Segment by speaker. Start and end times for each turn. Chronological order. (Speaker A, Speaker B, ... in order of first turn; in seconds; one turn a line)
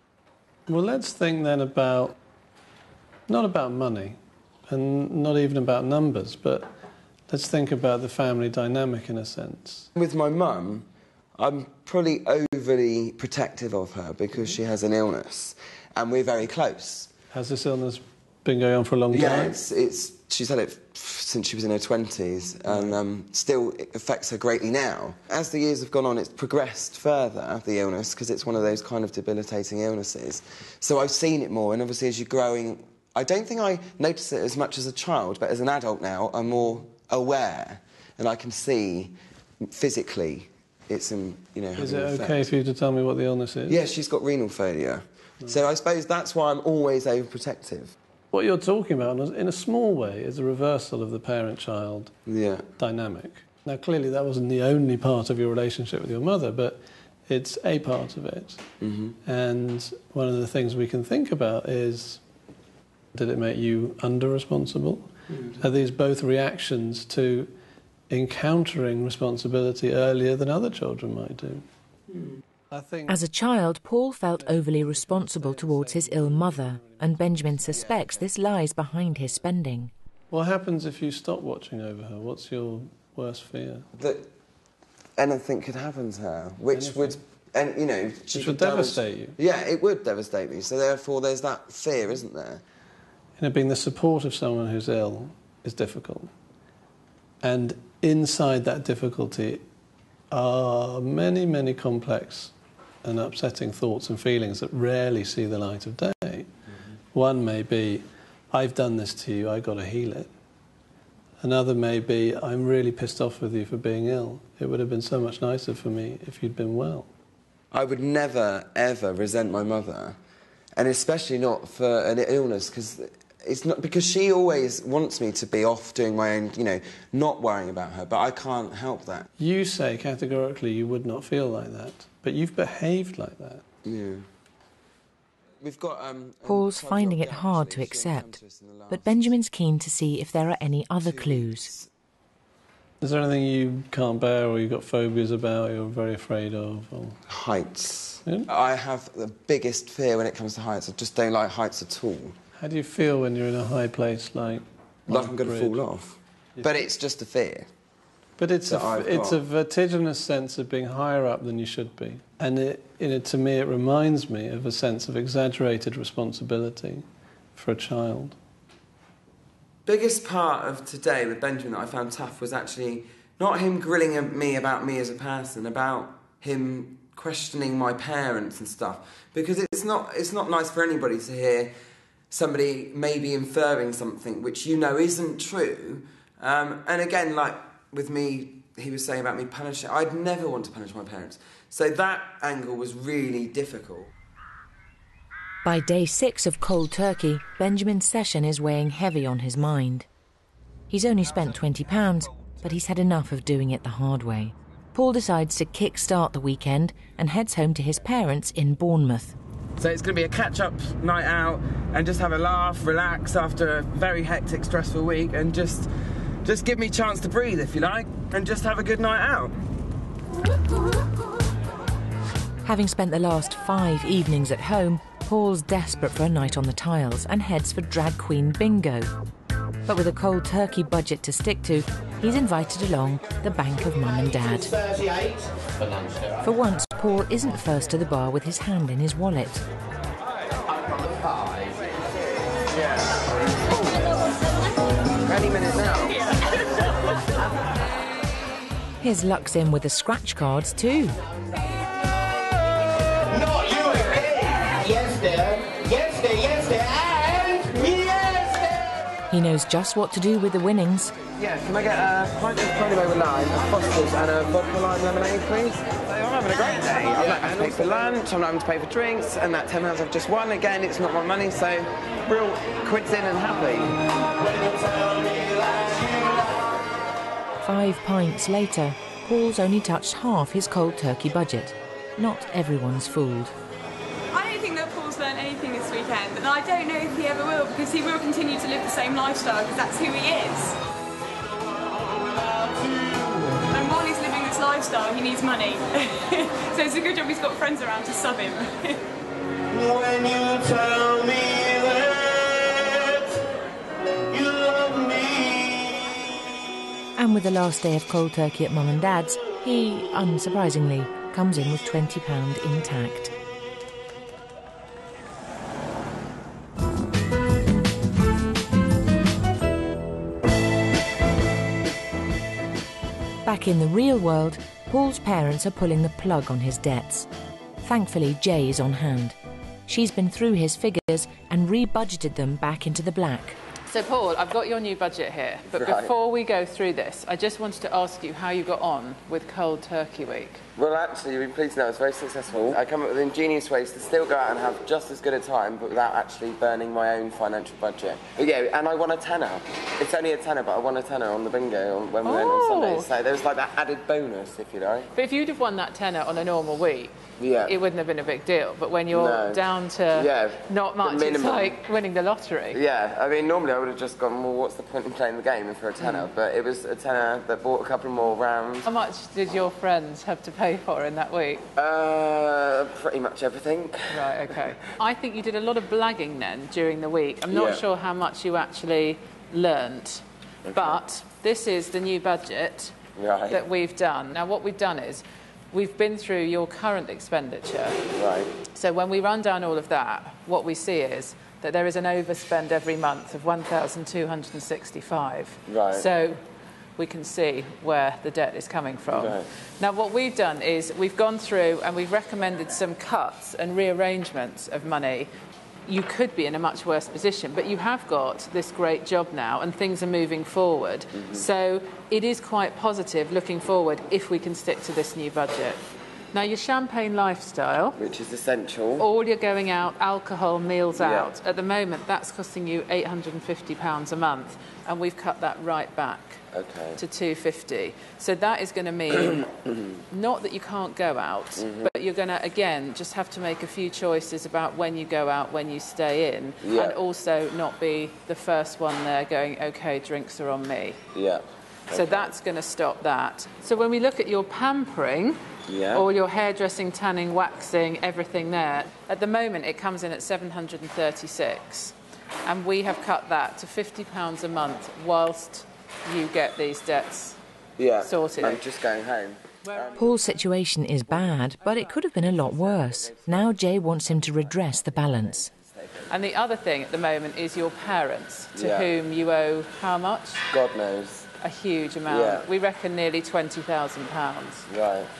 Speaker A: 0.7-2.2
Speaker A: 3.3-6.7
Speaker A: 7.3-9.9
Speaker B: 9.9-17.1
Speaker A: 17.3-19.6
Speaker B: 19.1-42.5
Speaker A: 22.7-23.0
Speaker A: 41.8-43.8
Speaker B: 43.7-47.9
Speaker A: 48.3-52.1
Speaker B: 52.3-52.7
Speaker A: 52.8-62.2
Speaker B: 58.8-59.2
Speaker A: 63.1-67.5
Speaker A: 68.1-71.7
Speaker A: 72.7-73.2
Speaker C: 73.1-79.9
Speaker A: 74.4-77.9
Speaker B: 77.7-78.2
Speaker A: 80.3-83.9
Speaker B: 84.0-84.3
Speaker B: 85.2-92.6
Speaker A: 86.7-87.2
Speaker A: 88.3-89.4
Speaker A: 93.4-96.3
Speaker A: 97.4-99.7
Speaker A: 100.3-106.5
Speaker A: 107.1-110.3
Speaker A: 111.4-117.1
Speaker B: 117.7-120.2
Speaker B: 120.8-129.3
Speaker A: 129.4-133.6
Speaker B: 133.8-134.2
Speaker B: 135.6-139.3
Speaker C: 136.4-138.4
Speaker C: 138.9-141.7
Speaker B: 141.0-141.9
Speaker A: 143.0-147.2
Speaker B: 147.3-152.4
Speaker A: 152.6-155.8
Speaker B: 155.1-157.7
Speaker A: 156.6-156.9
Speaker A: 158.4-168.4
Speaker B: 158.7-159.4
Speaker B: 169.9-181.7
Speaker B: 182.3-194.1
Speaker C: 195.7-200.1
Speaker C: 200.9-209.4
Speaker B: 209.8-215.9
Speaker B: 216.4-219.6
Speaker C: 222.7-229.1
Speaker C: 229.9-234.7
Speaker D: 234.7-235.5
Speaker C: 236.4-239.6
Speaker B: 242.7-244.1
Speaker B: 245.2-246.3
Speaker C: 249.0-251.2
Speaker D: 253.3-258.9
Speaker C: 259.3-261.1
Speaker B: 261.4-274.0
Speaker D: 274.6-275.9
Speaker C: 277.6-283.5
Speaker E: 284.3-290.8
Speaker D: 292.6-293.3
Speaker E: 293.7-299.0
Speaker D: 299.8-301.6
Speaker B: 300.9-301.5
Speaker D: 304.4-305.6
Speaker C: 307.2-313.3
Speaker C: 323.4-327.3
Speaker C: 327.8-329.4
Speaker C: 329.9-333.6
Speaker F: 333.9-340.6
Speaker B: 335.7-336.1
Speaker B: 340.8-355.1
Speaker F: 352.2-353.1
Speaker F: 355.1-362.8
Speaker B: 357.4-357.7
Speaker B: 359.1-359.6
Speaker B: 360.1-361.8
Speaker B: 362.7-368.9
Speaker F: 366.0-366.3
Speaker F: 368.9-371.7
Speaker B: 371.8-374.7
Speaker F: 374.1-383.0
Speaker B: 377.5-377.8
Speaker B: 380.6-381.0
Speaker B: 383.2-383.6
Speaker F: 383.5-388.0
Speaker B: 388.1-388.5
Speaker F: 388.7-396.4
Speaker B: 395.7-396.1
Speaker F: 397.0-405.3
Speaker B: 399.1-399.4
Speaker F: 405.9-418.0
Speaker B: 411.2-411.4
Speaker B: 418.0-419.1
Speaker F: 419.0-426.5
Speaker B: 421.0-421.3
Speaker B: 426.5-427.0
Speaker F: 427.0-429.5
Speaker B: 429.3-430.0
Speaker F: 430.1-441.0
Speaker B: 431.6-431.9
Speaker B: 436.6-437.0
Speaker B: 441.1-442.3
Speaker F: 441.9-451.9
Speaker B: 445.7-446.0
Speaker F: 452.5-457.4
Speaker B: 457.8-460.4
Speaker F: 458.0-458.6
Speaker F: 459.6-460.3
Speaker C: 460.0-465.5
Speaker B: 461.1-466.1
Speaker F: 466.1-470.5
Speaker B: 468.6-468.9
Speaker B: 470.5-471.3
Speaker F: 471.4-474.7
Speaker B: 472.1-472.4
Speaker B: 474.7-475.1